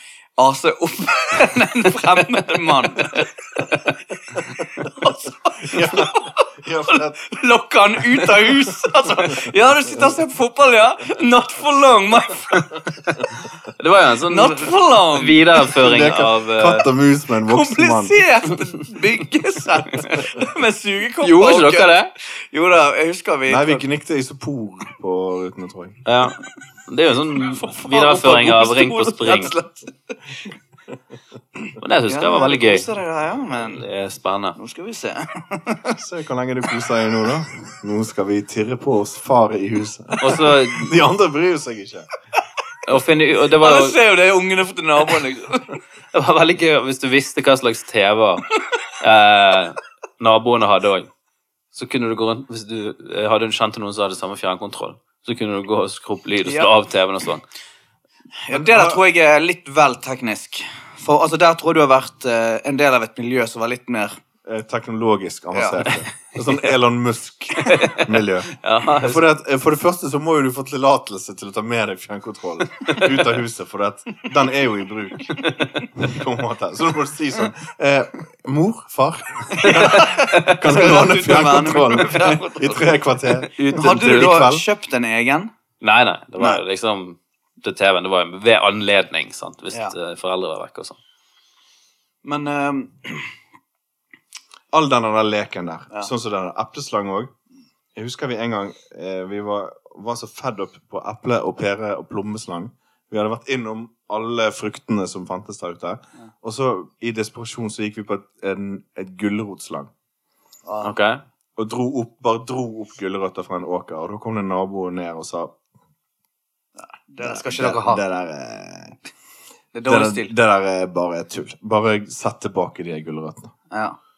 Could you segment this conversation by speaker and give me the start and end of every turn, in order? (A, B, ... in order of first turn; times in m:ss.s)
0:00.4-0:03.7 A
0:04.6-0:12.8 A
0:05.6-0:07.2 B
0:13.8-0:16.9 C
0:14.3-0:15.5 A
0:15.7-0:18.2 B
0:17.5-0:23.8 A
0:21.2-0:22.1 C
0:23.5-0:26.0 B
0:26.1-0:29.5 C
0:27.4-0:30.2 A
0:31.8-0:32.9 C
0:32.1-0:33.8 A
0:33.6-0:34.6 C
0:34.6-0:36.0 A
0:36.0-0:42.1 B
0:40.2-0:40.9 C
0:42.8-0:44.0 C
0:43.6-0:45.8 A
0:46.1-0:48.5 C
0:49.0-0:51.1 C
0:51.7-0:57.4 C
0:56.4-0:56.7 A
0:58.4-1:04.2 A
0:58.5-0:59.0 B
1:04.4-1:24.6 B
1:05.5-1:05.9 A
1:07.7-1:09.2 C
1:15.4-1:15.7 C
1:19.6-1:23.0 A
1:19.7-1:20.0 C
1:23.5-1:24.2 C
1:23.6-1:25.5 A
1:25.8-1:31.0 C
1:32.2-1:33.3 A
1:34.7-1:37.3 B
1:38.0-1:49.9 B
1:50.7-1:50.9 A
1:50.8-1:51.2 C
1:51.6-1:55.5 B
1:57.1-1:58.0 A
1:57.2-1:59.0 B
1:59.7-2:00.3 A
1:59.9-2:03.5 B
2:03.7-2:04.0 A